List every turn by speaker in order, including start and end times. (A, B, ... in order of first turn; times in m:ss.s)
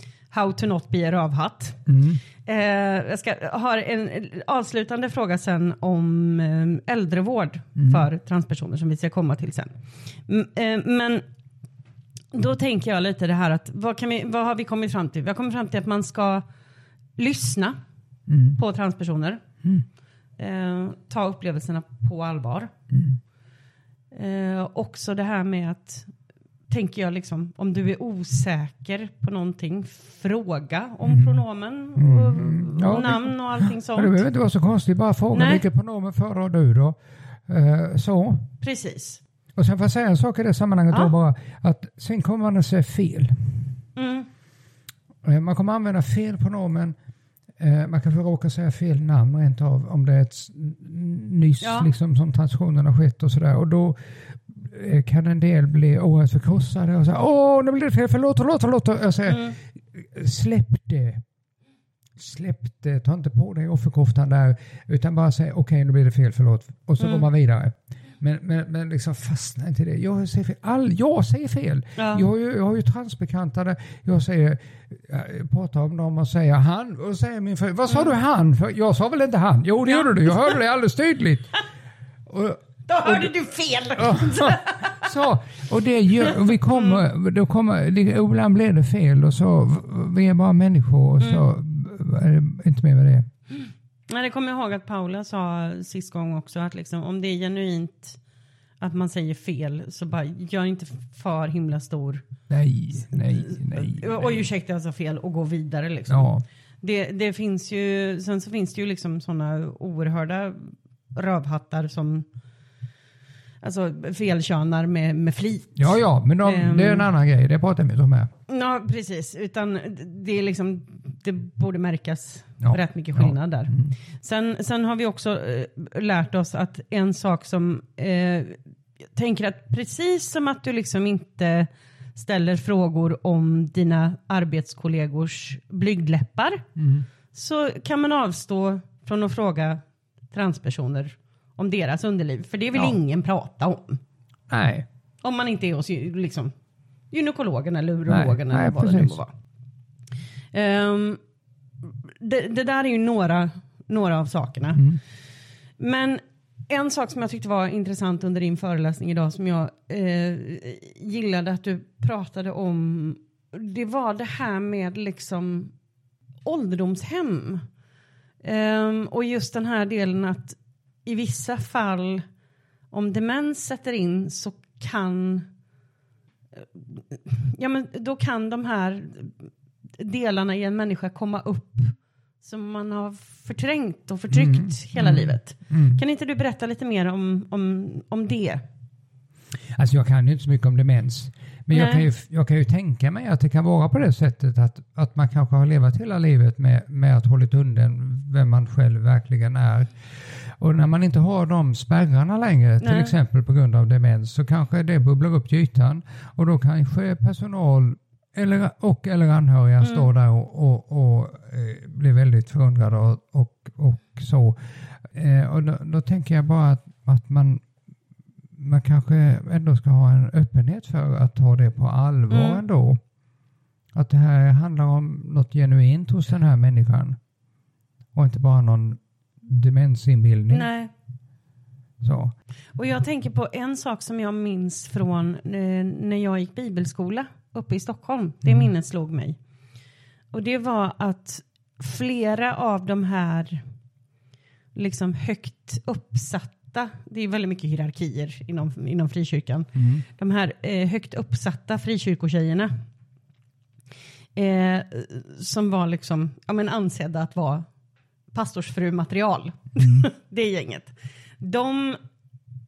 0:00.3-0:01.8 A
0:01.9-0:02.2 B
0:02.4-0:11.2 A
0:07.8-0:08.0 B
0:12.3-0:16.4 A
0:17.2-0:17.8 A
0:18.3-0:18.6 B
0:18.5-0:19.4 A
0:20.4-0:22.7 A
0:22.9-0:23.2 B
0:24.1-0:26.1 A
0:26.7-0:34.2 A
0:31.0-0:31.4 B
0:32.0-0:38.5 B
0:35.3-0:35.6 A
0:38.6-0:39.2 A
0:39.5-0:43.8 B
0:44.0-0:44.3 A
0:45.2-0:46.9 B
0:47.6-1:01.2 B
0:51.6-0:51.9 A
0:59.3-0:59.6 A
1:02.2-1:21.5 B
1:07.0-1:07.2 A
1:12.0-1:12.2 A
1:19.8-1:20.6 A
1:22.3-1:23.3 B
1:22.9-1:25.1 A
1:24.0-1:33.3 B
1:26.2-1:27.0 A
1:31.2-1:31.5 A
1:34.1-1:38.2 A
1:38.8-1:42.2 A
1:42.5-1:44.4 B
1:42.9-1:52.2 A
1:46.1-1:46.4 B
1:53.6-1:57.1 A
1:55.8-1:58.3 B
1:58.5-2:08.6 A
2:02.6-2:03.9 B
2:09.1-2:16.6 A
2:16.8-2:17.0 B
2:17.3-2:24.0 A
2:24.5-2:24.8 B
2:25.2-2:26.5 A
2:27.1-2:29.3 A
2:28.1-2:29.2 B
2:30.5-2:31.2 A
2:32.1-2:34.9 A
2:35.8-2:45.7 A
2:46.4-2:47.6 A
2:48.4-2:52.2 A
2:52.9-2:55.5 A
2:56.6-3:08.6 A
3:04.3-3:06.0 B
3:09.7-3:37.6 B
3:11.7-3:12.1 A
3:22.8-3:23.1 A
3:29.8-3:30.1 A
3:38.6-3:43.0 B
3:42.3-3:42.6 A
3:43.9-3:47.2 B
3:48.1-3:50.7 B
3:50.5-3:50.9 A
3:52.0-3:52.3 B
3:52.8-3:59.4 A
3:58.4-3:58.7 B
4:00.3-4:03.6 A
4:04.8-4:12.7 A
4:09.8-4:10.0 B
4:14.3-4:17.7 A
4:18.3-4:22.0 A
4:19.8-4:20.0 B